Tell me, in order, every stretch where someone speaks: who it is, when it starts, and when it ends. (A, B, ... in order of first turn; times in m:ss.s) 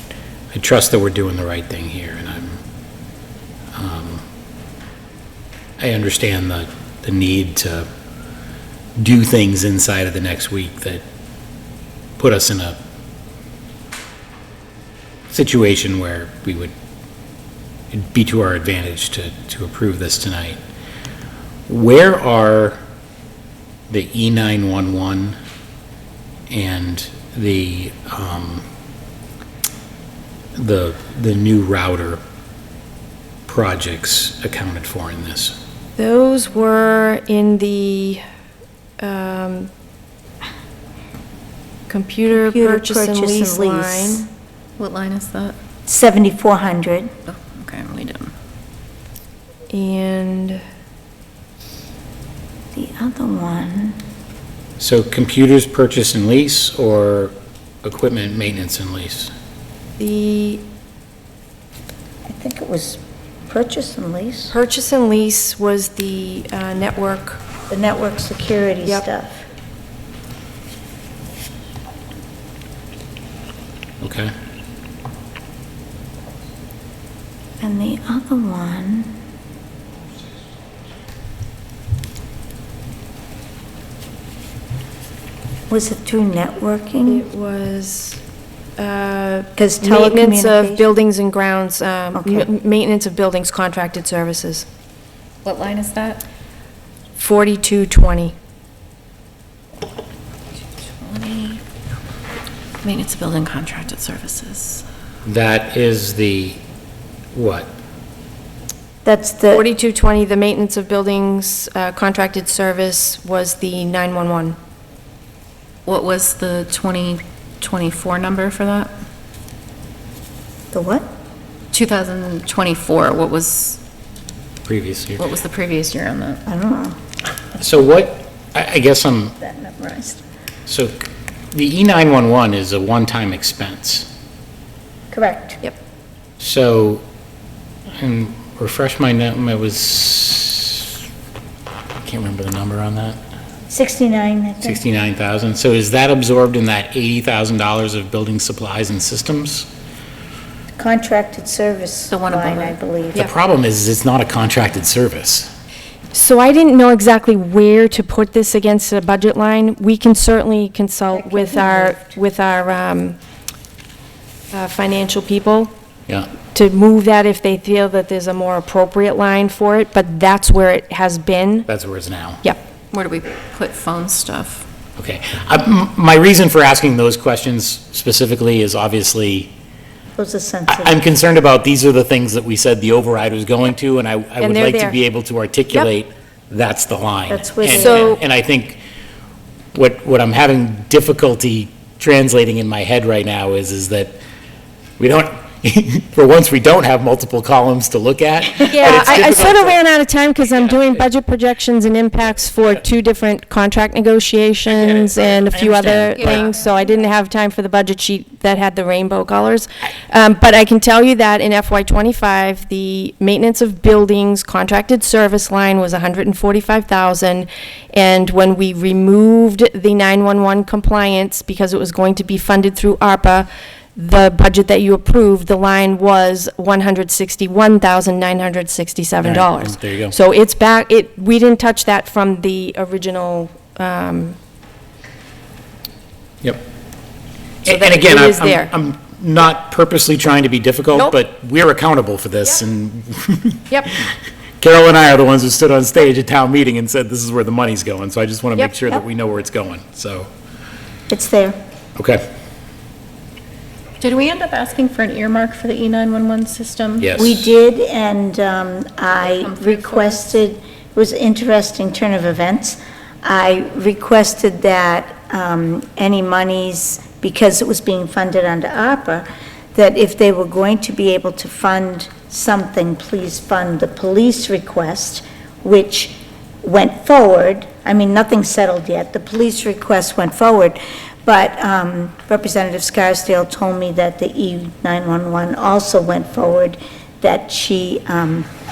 0:00.5-0:02.6 A
0:03.8-0:04.2 A
0:05.8-0:07.9 A
0:09.0-0:11.0 A
0:12.2-0:12.8 A
0:15.3-0:16.7 A
0:17.9-0:20.6 A
0:21.7-0:22.8 A
0:23.9-0:25.4 A
0:26.5-0:28.6 A
0:30.6-0:32.2 A
0:33.5-0:35.6 A
0:36.0-0:38.2 B
0:39.0-0:39.7 B
0:41.9-0:44.3 B
0:42.3-0:44.3 C
0:44.8-0:45.6 D
0:45.9-0:47.1 C
0:47.3-0:48.3 D
0:49.7-0:50.6 B
0:52.7-0:54.0 C
0:54.8-0:59.3 A
1:00.0-1:00.7 B
1:02.3-1:04.6 C
1:04.5-1:07.4 B
1:07.7-1:09.5 C
1:14.0-1:14.3 A
1:17.6-1:19.2 C
1:25.7-1:27.3 C
1:27.1-1:28.2 B
1:28.8-1:34.7 B
1:29.6-1:30.9 C
1:32.2-1:32.5 C
1:35.4-1:36.2 D
1:37.2-1:38.3 B
1:41.0-1:41.6 D
1:42.8-1:44.8 D
1:45.2-1:46.6 A
1:47.3-1:47.7 A
1:49.0-1:49.7 C
1:49.5-1:54.6 B
1:55.9-1:58.9 D
2:00.7-2:01.0 C
2:01.7-2:03.8 D
2:04.7-2:05.3 A
2:05.2-2:06.4 D
2:06.5-2:07.0 C
2:07.6-2:09.4 A
2:09.4-2:10.2 C
2:10.7-2:14.1 A
2:15.1-2:15.6 C
2:16.4-2:17.0 A
2:18.0-2:21.0 A
2:22.0-2:23.2 A
2:23.7-2:24.8 C
2:24.6-2:29.7 A
2:30.8-2:33.3 C
2:32.1-2:32.8 D
2:33.2-2:35.5 A
2:36.1-2:43.2 B
2:41.1-2:42.1 C
2:44.5-2:45.7 B
2:46.5-2:51.7 B
2:51.7-2:52.4 A
2:52.9-2:54.7 D
2:55.0-2:59.5 A
3:00.2-3:01.0 C
3:00.7-3:08.8 A
3:04.4-3:05.0 B
3:07.3-3:08.2 C
3:07.7-3:08.2 B
3:09.7-3:14.2 A
3:15.0-3:19.8 A
3:18.6-3:54.4 B
3:24.7-3:26.5 A
3:26.2-3:27.1 D
3:49.2-3:50.2 A
3:57.6-4:10.3 A
3:57.6-3:58.7 B
4:11.1-4:11.6 C
4:12.0-4:12.2 A
4:14.0-4:17.1 D
4:17.0-4:17.5 A
4:17.2-4:48.5 C
4:19.2-4:20.3 D